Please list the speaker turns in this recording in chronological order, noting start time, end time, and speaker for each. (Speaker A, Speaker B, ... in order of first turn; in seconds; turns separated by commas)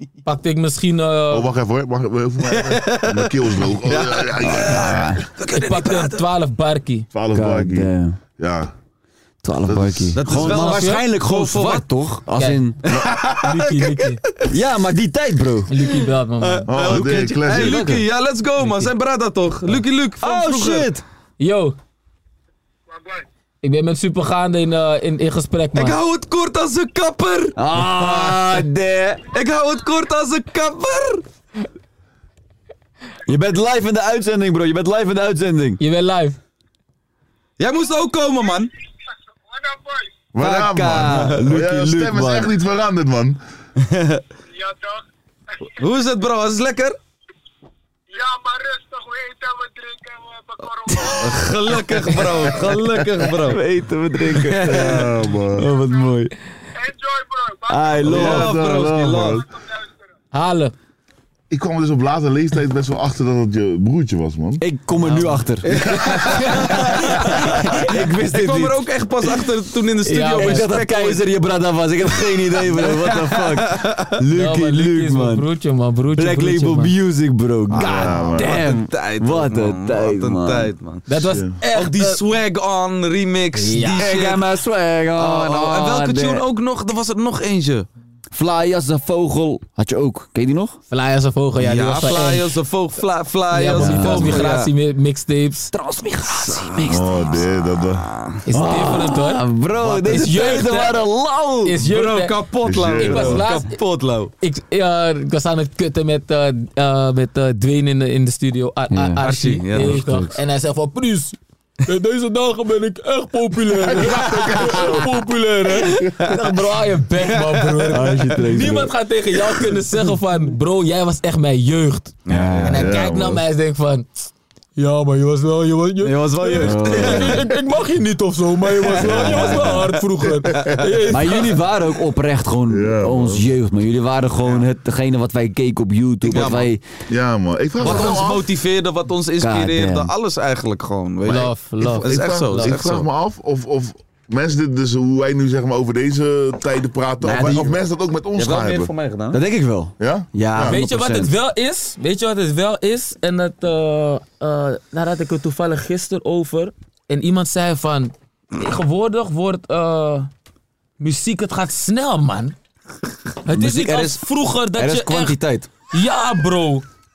Speaker A: 0.2-1.5, Speaker B: 1.3-5.2, Speaker C: 2.4-6.2, Speaker D: 4.4-5.2, Speaker A: 5.5-7.1, Speaker B: 7.1-8.7, Speaker D: 7.3-8.2, Speaker D: 9.4-12.8, Speaker B: 9.7-10.2, Speaker C: 10.1-11.8, Speaker A: 10.4-11.0, Speaker C: 12.9-14.5, Speaker A: 13.4-14.2, Speaker D: 14.5-15.7, Speaker A: 15.7-16.7, Speaker C: 16.4-20.9, Speaker B: 16.7-17.9, Speaker D: 16.8-18.0, Speaker D: 20.2-21.0, Speaker A: 21.4-21.7, Speaker A: 23.6-26.0, Speaker C: 25.8-27.6, Speaker D: 27.6-29.2, Speaker A: 28.0-28.3, Speaker C: 29.3-31.2, Speaker D: 33.2-35.8, Speaker A: 35.8-36.4, Speaker C: 37.6-38.7, Speaker B: 40.3-43.4, Speaker D: 40.4-42.5, Speaker C: 43.8-44.2, Speaker C: 45.7-47.0, Speaker E: 48.1-50.5, Speaker C: 50.9-53.6, Speaker D: 53.4-56.3, Speaker C: 54.3-55.1, Speaker B: 54.6-55.7, Speaker E: 56.9-57.6, Speaker D: 57.6-58.6, Speaker B: 58.0-59.5, Speaker C: 58.0-59.4, Speaker A: 60.3-60.7, Speaker B: 61.5-64.6, Speaker D: 64.6-68.8, Speaker C: 65.6-71.2, Speaker A: 70.1-70.8, Speaker D: 70.3-75.5, Speaker C: 72.6-74.1, Speaker A: 74.3-76.9, Speaker D: 76.1-80.7, Speaker C: 77.7-81.0, Speaker A: 77.8-78.1, Speaker B: 77.8-78.6, Speaker A: 81.1-82.2, Speaker B: 81.2-81.5, Speaker C: 81.6-84.4, Speaker A: 83.5-84.1, Speaker D: 83.8-86.4, Speaker C: 85.2-87.9, Speaker D: 88.3-90.8, Speaker A: 90.9-92.5, Speaker C: 91.6-94.7, Speaker A: 93.5-95.7, Speaker D: 93.7-94.5, Speaker D: 95.7-97.5, Speaker B: 96.9-98.1, Speaker A: 98.5-100.9, Speaker D: 98.5-101.8, Speaker C: 100.0-100.7, Speaker A: 101.6-102.3, Speaker C: 101.8-104.3, Speaker B: 102.6-103.4, Speaker A: 103.0-103.8, Speaker A: 104.4-131.5, Speaker D: 108.9-110.3, Speaker C: 109.2-110.1, Speaker B: 113.8-115.2, Speaker C: 117.4-118.0, Speaker D: 117.9-118.9, Speaker C: 122.2-122.9, Speaker D: 122.3-122.9, Speaker B: 122.7-123.4, Speaker C: 126.0-127.4, Speaker D: 126.6-127.4, Speaker C: 128.9-129.9, Speaker D: 128.9-129.8, Speaker C: 130.5-130.8, Speaker D: 131.1-136.8, Speaker B: 132.7-133.5, Speaker C: 136.3-136.7, Speaker B: 137.1-138.4, Speaker C: 137.8-143.1, Speaker D: 139.4-140.1, Speaker A: 141.2-142.8, Speaker B: 141.3-148.9, Speaker D: 147.2-147.8, Speaker C: 148.3-149.4, Speaker D: 149.3-151.3, Speaker B: 150.0-150.8, Speaker A: 150.6-160.3, Speaker A: 161.0-162.5, Speaker A: 163.4-165.4, Speaker D: 163.5-165.7, Speaker A: 165.9-166.8